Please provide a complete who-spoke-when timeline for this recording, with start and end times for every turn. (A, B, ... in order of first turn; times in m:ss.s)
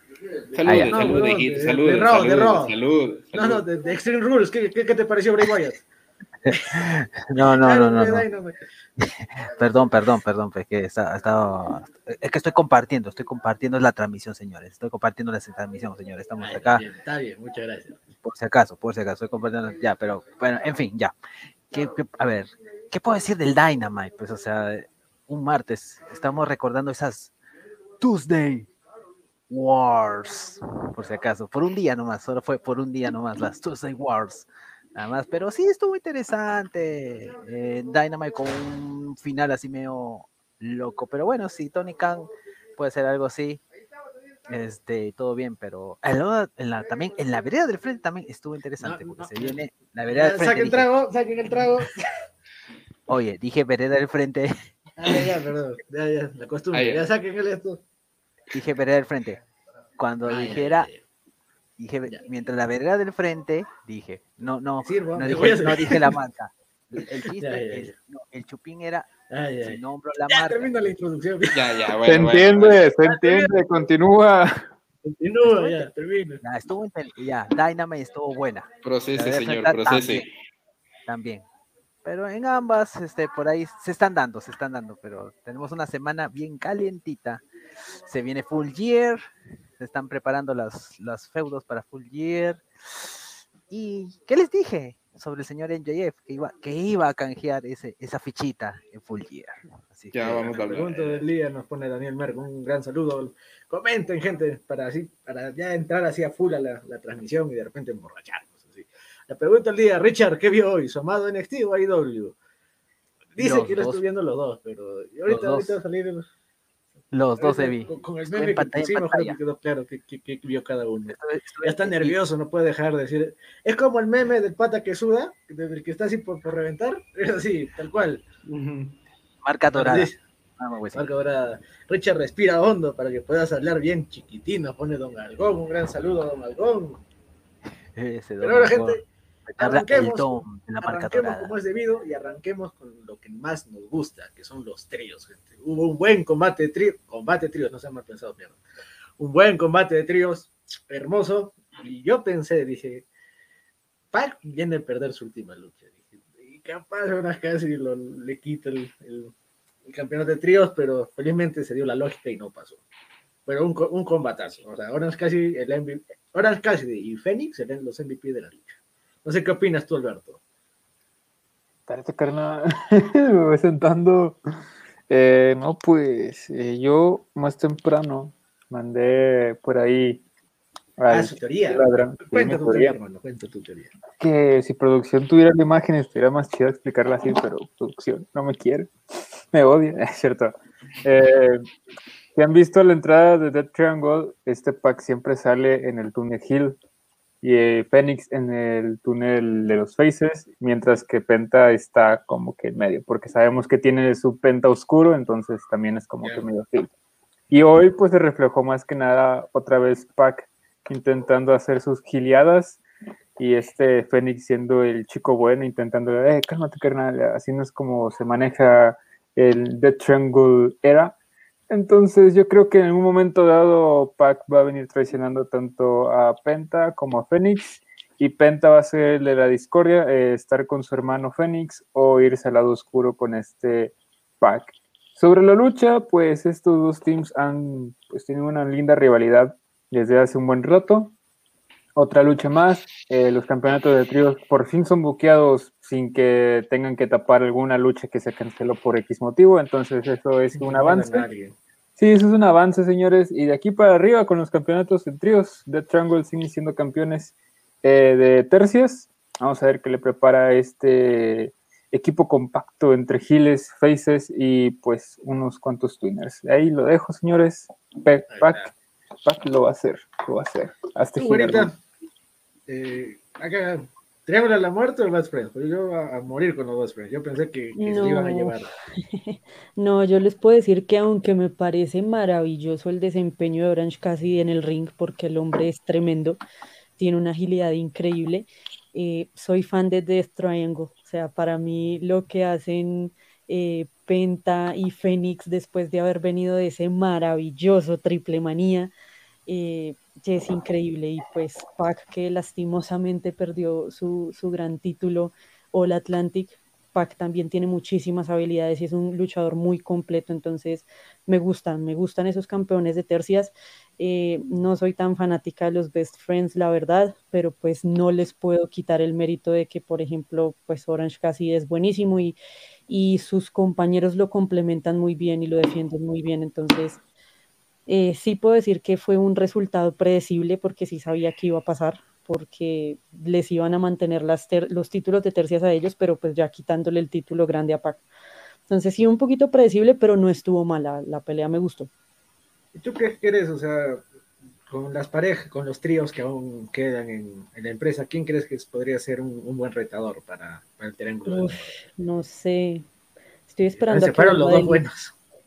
0:00.5-0:03.7 A
0:00.7-0:01.2 B
0:00.7-0:02.8 C
0:03.3-0:05.8 C
0:06.5-0:08.6 C
0:06.5-0:08.2 B
0:09.0-0:16.8 B
0:16.4-0:18.1 C
0:18.2-0:21.1 B
0:21.7-0:27.3 B
0:28.0-0:28.7 B
0:29.5-0:43.6 B
0:44.5-0:50.9 B
0:48.8-0:52.1 C
0:53.1-0:54.5 B
0:55.0-0:57.8 C
0:56.7-0:57.1 A
0:58.5-0:59.4 B
1:00.0-1:00.9 B
1:00.2-1:01.0 C
1:01.8-1:10.8 B
1:04.8-1:06.2 C
1:07.2-1:08.0 C
1:09.3-1:11.7 C
1:11.5-1:12.8 A
1:12.0-1:14.7 D
1:13.0-1:13.5 C
1:15.0-1:16.4 C
1:15.4-1:15.9 B
1:16.4-1:20.3 B
1:18.8-1:20.3 A
1:21.1-1:21.4 B
1:22.0-1:27.4 B
1:28.1-1:29.2 B
1:29.8-1:40.5 B
1:40.1-1:41.2 A
1:40.2-1:52.4 C
1:53.4-1:56.2 C
1:53.4-1:54.0 B
1:55.3-1:55.8 B
1:57.1-1:59.4 B
1:57.4-2:08.2 C
2:01.1-2:02.2 B
2:08.5-2:09.0 A
2:09.4-2:11.1 B
2:09.8-2:10.2 C
2:11.0-2:17.0 C
2:18.0-2:19.0 B
2:18.4-2:19.0 C
2:19.6-2:21.6 B
2:19.6-2:28.6 C
2:29.2-2:33.0 C
2:34.1-2:39.3 C
2:39.9-2:42.8 C
2:43.5-2:50.4 C
2:51.9-2:54.4 D
2:55.1-3:00.2 D
3:01.0-3:03.0 D
3:01.1-3:03.9 C
3:04.2-3:08.9 D
3:09.5-3:11.6 D
3:12.4-3:16.8 D
3:17.4-3:26.9 D
3:27.5-3:32.8 D
3:33.4-3:41.1 D
3:41.7-4:01.1 D
4:02.0-4:11.2 D
4:10.6-4:11.6 C
4:12.0-4:28.7 D
4:28.3-4:28.7 C
4:29.2-4:31.7 D
4:31.2-4:31.8 C
4:32.7-4:38.7 C
4:37.8-4:38.6 E
4:39.1-4:46.4 E
4:47.0-4:58.9 E
4:59.5-5:22.4 E
5:22.9-5:27.0 E
5:27.9-5:38.0 E
5:38.7-5:41.9 E
5:42.8-5:44.0 C
5:44.7-5:51.7 C
5:51.2-5:52.9 E
5:53.5-5:54.8 E
5:53.8-5:55.1 C